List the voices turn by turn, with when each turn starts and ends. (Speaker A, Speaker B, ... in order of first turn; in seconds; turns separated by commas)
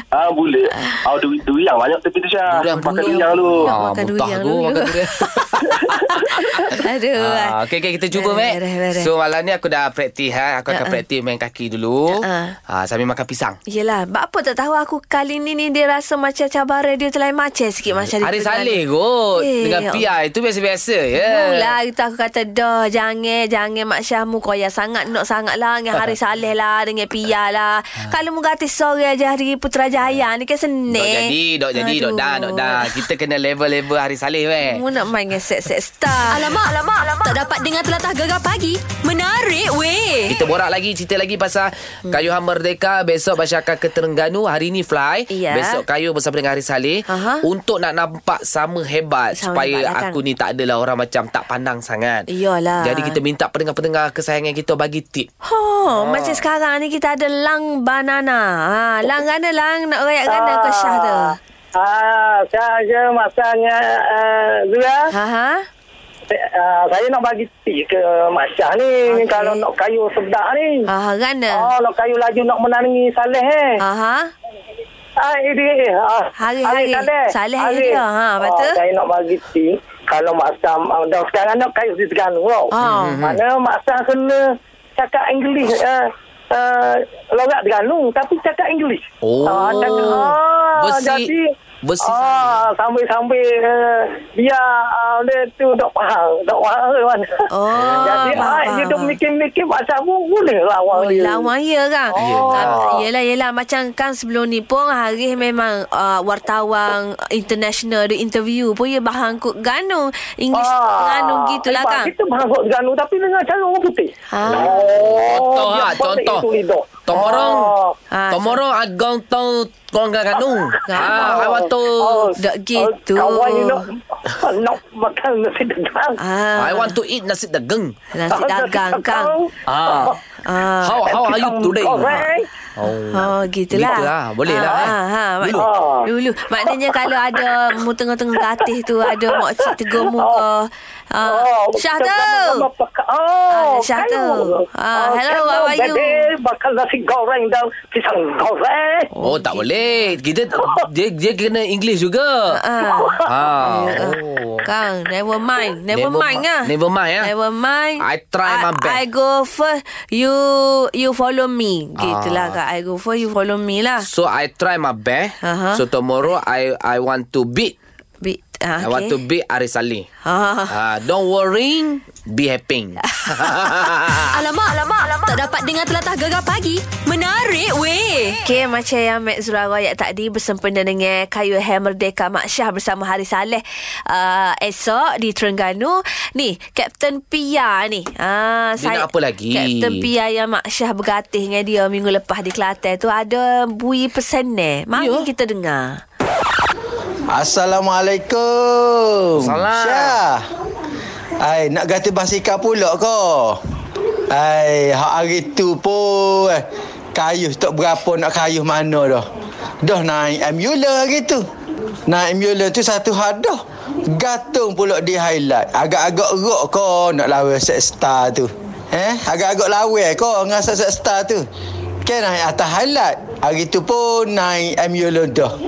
Speaker A: 0.1-3.7, Speaker B: 2.5-5.3, Speaker C: 3.6-7.5, Speaker A: 5.7-6.5, Speaker B: 7.2-13.6, Speaker C: 8.1-9.1, Speaker C: 10.7-11.0, Speaker C: 12.2-12.5, Speaker C: 13.7-18.8, Speaker B: 18.2-21.7, Speaker C: 19.4-20.0, Speaker C: 21.2-33.0, Speaker B: 30.9-34.8, Speaker C: 34.6-36.4, Speaker D: 36.3-40.4, Speaker B: 40.3-52.2, Speaker C: 45.3-45.8, Speaker C: 47.1-47.4, Speaker C: 49.3-50.2, Speaker C: 52.3-53.2, Speaker B: 52.8-55.3, Speaker C: 55.4-61.4, Speaker B: 55.9-56.5, Speaker E: 60.2-65.0, Speaker C: 65.1-65.6, Speaker E: 66.3-70.9, Speaker C: 69.1-69.7, Speaker C: 70.9-71.7, Speaker E: 71.5-73.7, Speaker C: 73.8-74.3, Speaker E: 75.2-84.4, Speaker C: 76.4-78.8, Speaker C: 82.7-83.2, Speaker B: 82.8-83.4, Speaker E: 85.0-91.4, Speaker B: 89.2-91.3, Speaker C: 89.9-90.2, Speaker B: 91.8-92.7, Speaker E: 92.0-101.5, Speaker C: 97.5-99.2, Speaker B: 97.7-98.5, Speaker C: 100.9-112.1, Speaker E: 102.1-103.0, Speaker B: 102.2-102.8, Speaker E: 110.5-117.9, Speaker C: 114.3-114.9, Speaker B: 114.5-116.5, Speaker B: 117.0-117.7, Speaker C: 117.1-117.6, Speaker C: 118.1-118.6, Speaker B: 118.3-122.2, Speaker E: 120.8-126.2, Speaker C: 120.9-121.7, Speaker C: 122.4-123.8, Speaker C: 126.2-127.0, Speaker B: 126.6-127.9, Speaker C: 128.1-129.3, Speaker E: 128.2-130.2, Speaker B: 129.7-130.2, Speaker C: 130.4-131.0, Speaker B: 130.8-132.2, Speaker E: 131.0-132.5, Speaker B: 132.8-135.7, Speaker C: 133.1-142.7, Speaker E: 135.6-136.1, Speaker E: 136.6-137.5, Speaker E: 139.1-140.4, Speaker E: 141.2-149.1, Speaker C: 143.5-146.2, Speaker C: 149.2-150.2, Speaker B: 149.2-152.6, Speaker C: 152.5-156.7, Speaker E: 152.8-153.2, Speaker B: 153.2-154.6, Speaker B: 155.9-157.3, Speaker C: 157.2-164.1, Speaker B: 158.0-159.0, Speaker B: 162.0-162.6, Speaker B: 164.0-167.7, Speaker C: 165.4-165.8, Speaker C: 168.2-169.2, Speaker B: 168.8-170.1, Speaker C: 170.2-170.7, Speaker B: 170.7-174.4, Speaker C: 173.2-173.8, Speaker D: 174.2-178.4, Speaker C: 178.4-196.0, Speaker B: 188.8-190.1, Speaker B: 194.9-195.3, Speaker F: 197.3-200.4, Speaker B: 199.4-200.2, Speaker F: 201.4-203.6, Speaker F: 204.3-206.6, Speaker F: 207.1-209.2, Speaker F: 209.8-211.4, Speaker F: 212.1-213.6, Speaker F: 214.2-221.4, Speaker F: 222.0-225.5